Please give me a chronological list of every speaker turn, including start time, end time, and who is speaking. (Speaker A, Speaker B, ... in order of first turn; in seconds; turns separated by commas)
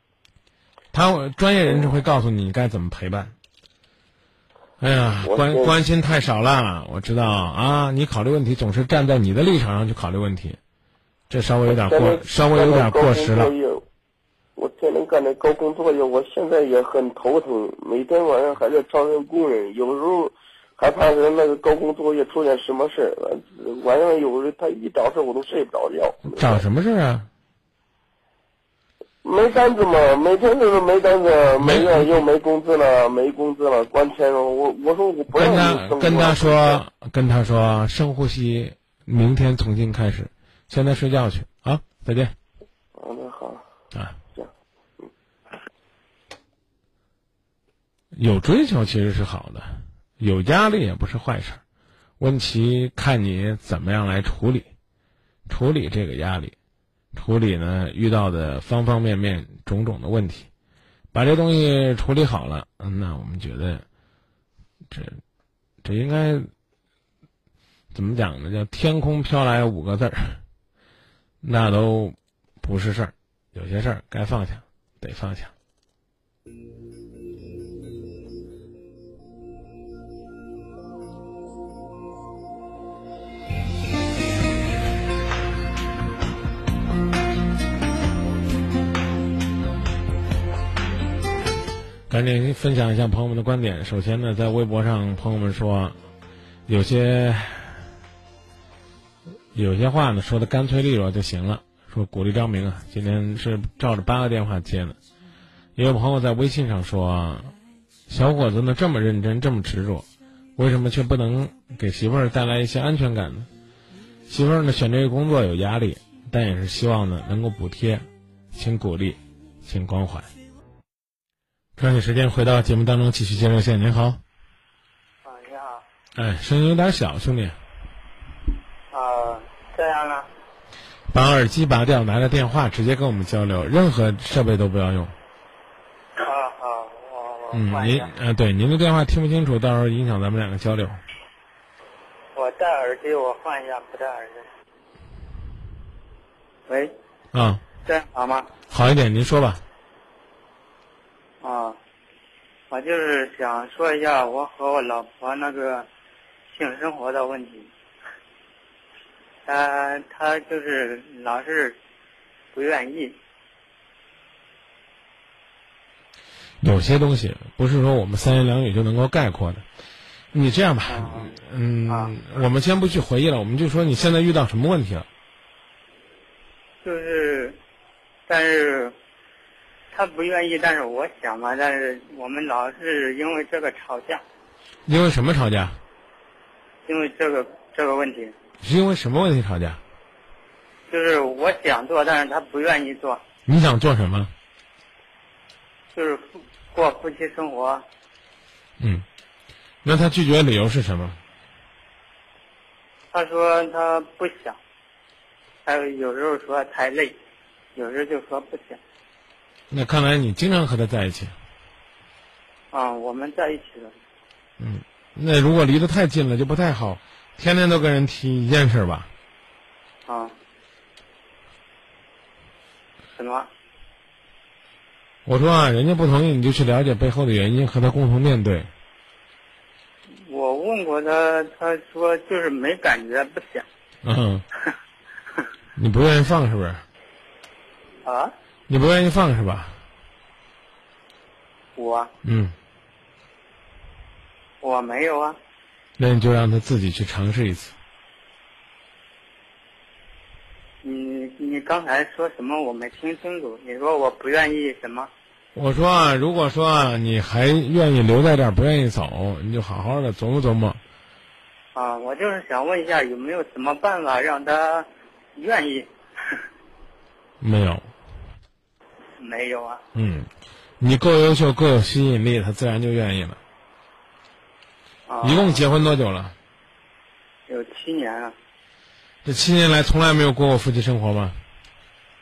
Speaker A: 0.9-3.3, Speaker A: 4.8-10.6, Speaker B: 5.2-5.8, Speaker A: 11.3-13.5, Speaker B: 11.7-13.8, Speaker B: 14.6-26.6, Speaker A: 26.3-27.3, Speaker B: 29.2-36.8, Speaker A: 31.6-32.2, Speaker A: 35.3-42.4, Speaker B: 43.0-43.6, Speaker A: 48.1-51.6, Speaker A: 52.2-54.7, Speaker A: 55.5-56.5, Speaker A: 57.1-60.5, Speaker A: 61.1-63.9, Speaker A: 64.9-65.2, Speaker A: 65.8-66.5, Speaker A: 67.9-70.4, Speaker A: 71.4-75.5, Speaker A: 92.1-96.0, Speaker A: 96.7-97.8, Speaker A: 99.5-105.0, Speaker A: 105.8-107.5, Speaker A: 108.1-113.5, Speaker A: 114.3-120.3, Speaker A: 121.8-124.2, Speaker C: 125.2-125.8, Speaker A: 126.2-127.6, Speaker C: 128.9-130.3, Speaker A: 131.1-135.2, Speaker C: 136.2-138.1, Speaker A: 137.5-141.0, Speaker C: 142.3-144.5, Speaker A: 147.3-147.6, Speaker C: 147.8-148.5, Speaker A: 148.7-149.6, Speaker C: 151.4-151.8, Speaker C: 152.7-155.9, Speaker C: 156.5-157.7, Speaker C: 159.5-161.8, Speaker C: 162.5-163.2, Speaker A: 166.6-169.7, Speaker A: 170.3-175.1, Speaker C: 170.9-171.3, Speaker C: 171.9-172.2, Speaker C: 176.8-177.6, Speaker C: 178.3-178.9, Speaker C: 179.9-184.2, Speaker A: 184.9-185.8, Speaker C: 186.9-188.3, Speaker A: 188.6-189.8, Speaker C: 190.9-193.2, Speaker A: 193.5-194.3, Speaker C: 195.9-197.8, Speaker A: 198.8-199.1, Speaker A: 199.8-201.2, Speaker C: 203.1-204.6, Speaker C: 205.7-207.2, Speaker C: 207.8-208.8, Speaker A: 209.7-211.3, Speaker C: 212.7-213.9, Speaker A: 214.6-219.1, Speaker C: 220.1-220.3, Speaker C: 223.2-223.5, Speaker A: 225.3-228.7, Speaker C: 230.3-233.7, Speaker A: 234.0-234.4, Speaker A: 235.8-236.8, Speaker C: 238.0-238.3, Speaker A: 238.7-239.8, Speaker C: 241.8-242.1, Speaker A: 242.2-242.6, Speaker C: 244.6-245.4, Speaker A: 246.0-247.8, Speaker C: 250.8-255.1, Speaker A: 255.6-260.8, Speaker C: 261.8-265.9, Speaker A: 267.4-267.9, Speaker C: 269.2-269.8, Speaker A: 269.9-270.3, Speaker A: 270.8-273.4, Speaker C: 275.1-275.7, Speaker A: 275.2-276.4, Speaker C: 277.5-278.4, Speaker A: 279.2-281.4